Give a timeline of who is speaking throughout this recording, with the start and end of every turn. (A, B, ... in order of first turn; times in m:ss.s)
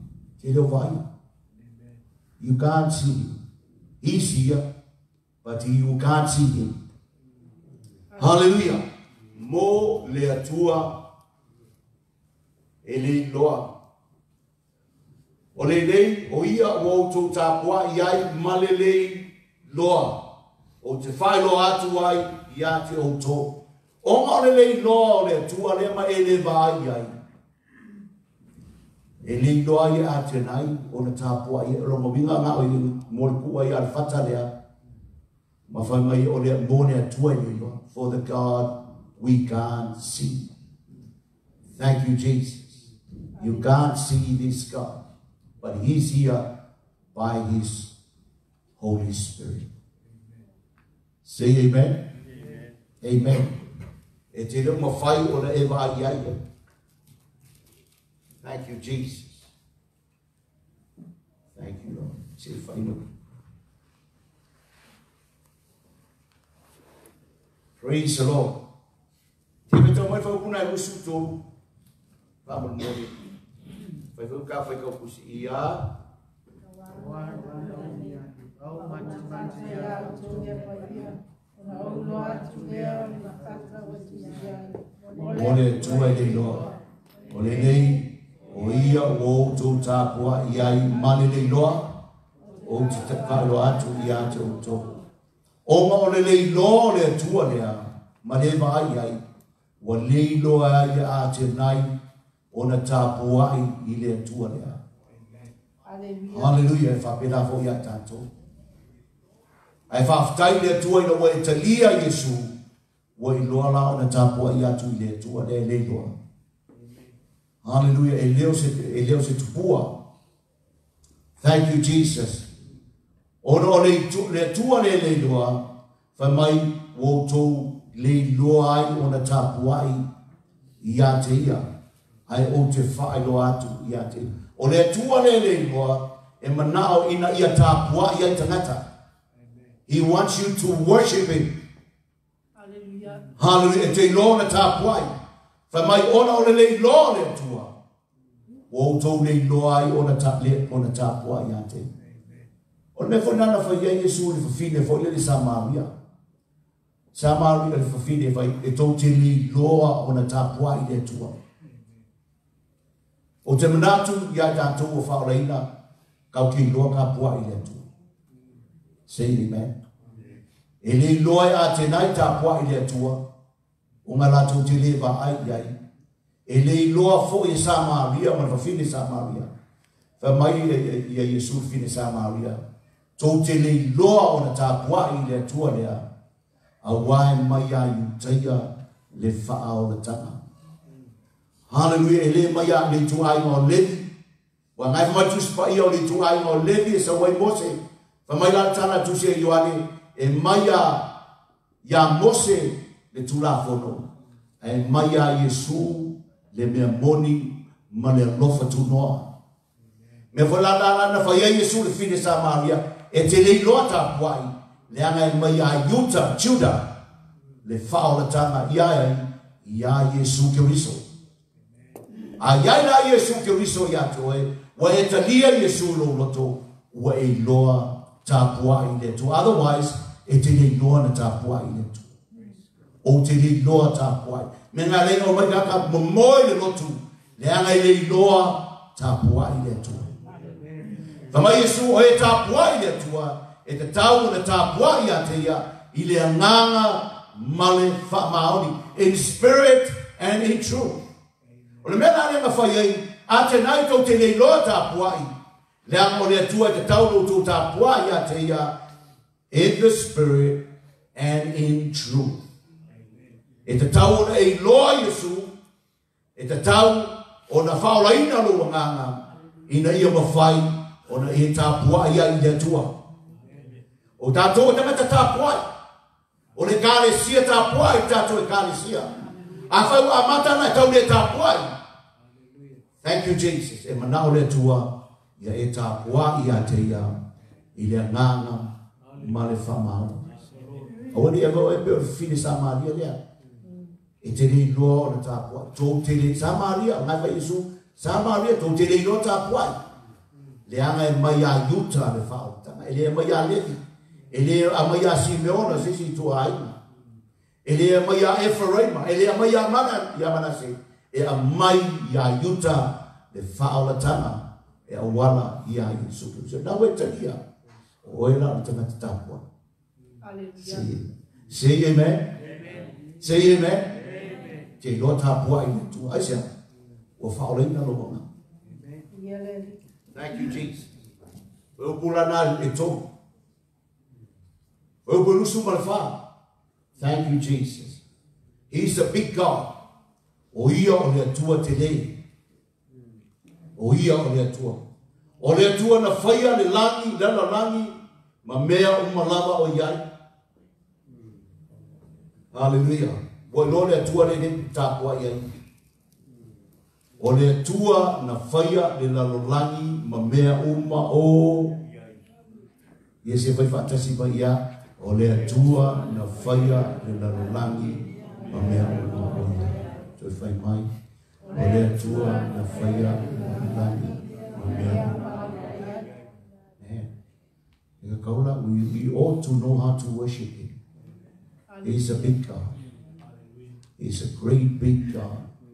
0:00.4-0:01.0 A
0:02.4-0:03.4 A
0:04.0-0:04.6 A
0:05.4-0:06.8 A
0:08.1-0:08.4 B
0:08.2-0:08.8 A
0:09.3-0:10.9 A
0:12.8-0:13.7 A
0:15.5-0:20.2 A
0:20.8-0:23.5 A
0:24.0-0:27.1 A
0:29.2-0:34.5 A
0:35.7-0:40.5 A
0:41.7-0:42.8 A
0:43.4-0:43.8 B
0:43.4-0:45.0 A
0:45.6-0:46.4 A
0:47.1-0:47.9 A
0:48.8-0:49.7 A
0:51.2-0:52.0 A
0:53.0-0:53.5 A
0:54.3-0:56.4 A
0:58.4-0:59.5 A
1:01.5-1:03.0 A
1:07.8-1:08.6 A
1:09.7-1:11.4 A
1:12.4-1:13.2 A
1:14.1-1:15.8 A
1:16.7-1:26.6 B
1:25.3-1:26.7 A
1:27.3-1:31.9 A
1:32.4-1:35.0 B
1:32.6-1:34.9 A
1:35.6-1:39.2 A
1:39.8-1:41.9 A
1:42.5-1:44.8 A
1:45.8-1:46.6 B
1:46.3-1:48.3 A
1:49.9-1:52.5 A
1:53.2-1:56.1 A
1:57.6-1:59.9 A
2:01.4-2:02.5 A
2:03.4-2:05.6 A
2:06.2-2:10.0 A
2:10.8-2:11.7 A
2:12.3-2:18.8 A
2:19.9-2:21.5 A
2:22.6-2:23.2 B
2:23.4-2:25.1 A
2:25.7-2:27.7 A
2:28.7-2:31.9 A
2:33.0-2:35.9 A
2:37.1-2:41.4 A
2:43.4-2:45.6 A
2:46.3-2:47.8 A
2:49.1-2:49.7 A
2:50.8-2:53.2 A
2:54.0-2:55.7 A
2:56.5-2:59.5 A
3:00.2-3:02.6 A
3:03.2-3:06.0 A
3:06.8-3:10.4 A
3:11.7-3:14.1 A
3:14.8-3:21.0 A
3:21.8-3:24.1 A
3:24.6-3:29.3 A
3:30.3-3:36.9 A
3:37.6-3:41.0 A
3:42.4-3:52.1 A
3:53.0-4:00.1 A
4:00.2-4:01.0 B
4:01.3-4:11.0 A
4:11.8-4:15.3 A
4:15.8-4:18.7 A
4:19.5-4:20.6 A
4:21.1-4:22.4 A
4:23.6-4:25.5 A
4:26.4-4:32.9 A
4:34.2-4:35.6 A
4:36.6-4:39.1 A
4:39.7-4:41.7 A
4:43.0-4:47.2 A
4:47.8-4:50.3 A
4:51.1-4:53.2 A
4:54.2-4:59.8 A
5:00.7-5:06.8 A
5:07.6-5:17.4 A
5:18.0-5:19.4 A
5:20.2-5:20.9 B
5:20.6-5:22.3 A
5:23.2-5:24.0 A
5:24.8-5:26.5 A
5:27.2-5:28.2 A
5:29.1-5:29.8 B
5:30.1-5:30.9 A
5:31.8-5:33.0 A
5:35.0-5:36.1 A
5:37.0-5:38.0 A
5:38.7-5:39.7 A
5:40.5-5:42.1 A
5:43.8-5:44.8 A
5:45.4-5:50.0 A
5:52.5-5:55.5 A
5:57.2-6:01.7 A
6:03.2-6:10.9 A
6:11.5-6:15.1 A
6:11.5-6:11.9 B
6:14.0-6:16.1 B
6:16.8-6:17.1 A
6:18.0-6:20.7 A
6:21.7-6:22.3 B
6:21.8-6:22.7 A
6:24.0-6:25.4 A